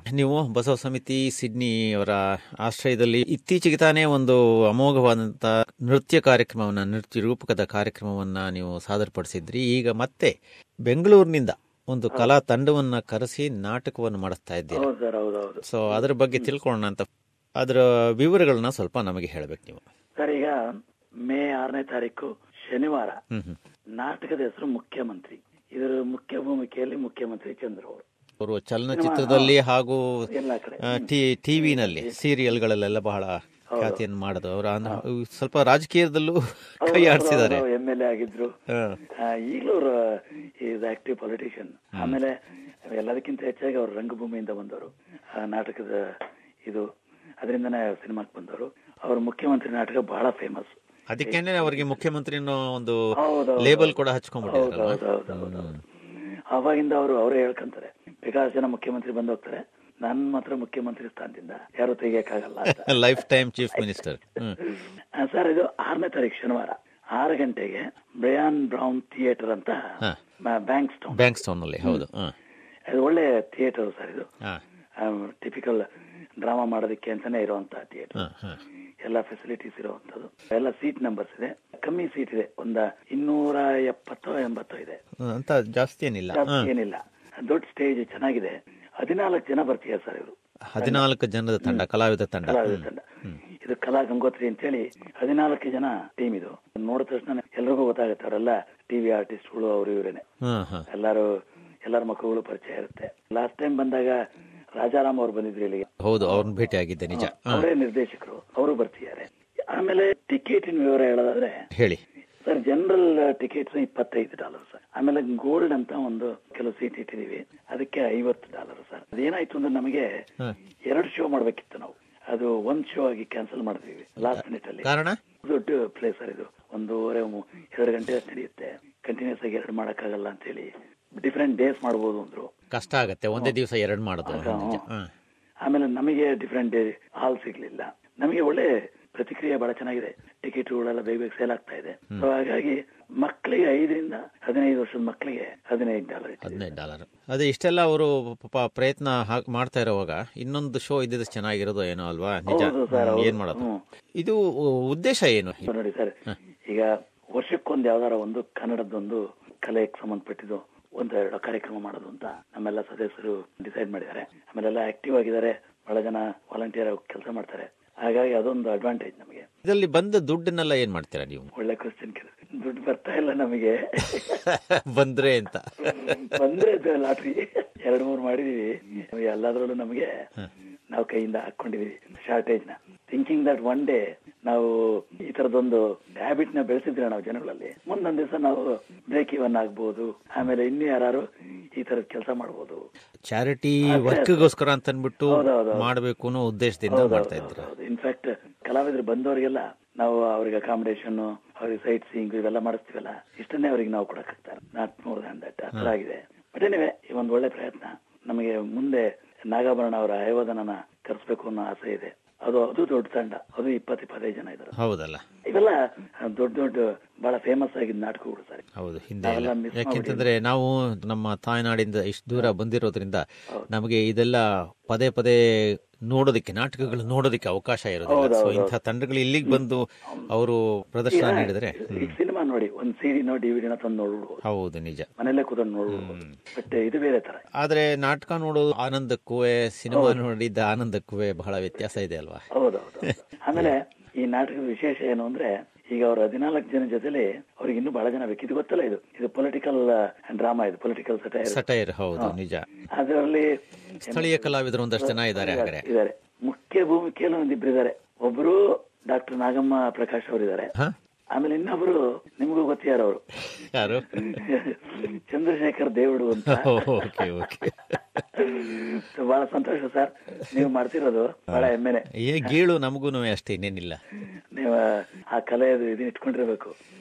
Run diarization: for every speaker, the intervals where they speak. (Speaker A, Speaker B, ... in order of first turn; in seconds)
Speaker A: 0.1-10.3, 10.9-14.9, 15.6-17.1, 17.6-19.8, 28.4-30.3, 30.8-37.6, 38.7-39.0, 51.1-53.0, 53.6-55.8, 62.7-64.6, 71.1-72.3, 78.2-78.6, 85.2-86.7, 90.7-93.4, 100.5-100.8, 106.0-107.7, 124.2-125.2, 132.7-135.1, 146.4-153.7, 154.2-155.7, 169.7-171.5, 174.1-176.3, 193.3-197.7, 214.8-215.2, 218.8-225.4, 226.1-232.1, 234.4-235.1, 235.9-236.4, 237.6-242.5, 243.0-243.7, 251.5-252.7, 254.1-255.8, 263.6-264.4, 266.5-268.2, 272.2-274.0
Speaker B: 14.7-16.5, 20.2-20.6, 21.3-23.2, 24.0-28.1, 28.9-29.6, 30.3-32.1, 33.7-34.0, 36.8-38.5, 39.2-42.4, 42.9-46.0, 47.4-52.0, 53.2-55.8, 56.5-64.0, 64.6-69.8, 70.5-72.0, 72.9-74.3, 75.0-75.8, 76.4-78.2, 79.0-85.0, 86.3-91.0, 92.5-93.0, 93.6-100.2, 100.9-101.3, 101.9-104.2, 104.8-106.5, 107.1-111.6, 112.5-120.1, 120.9-124.9, 125.5-132.5, 134.2-134.8, 135.7-146.8, 152.5-153.8, 155.6-156.1, 156.7-169.5, 171.6-174.4, 175.9-180.1, 180.9-192.8, 193.9-194.5, 195.3-195.9, 196.9-214.8, 215.5-218.6, 219.2-220.3, 228.1-228.8, 229.4-230.3, 231.1-234.4, 235.2-237.4, 239.9-240.2, 242.5-251.6, 252.9-253.5, 254.0-260.7, 261.3-263.2, 264.0-267.4, 268.4-272.6, 274.5-276.7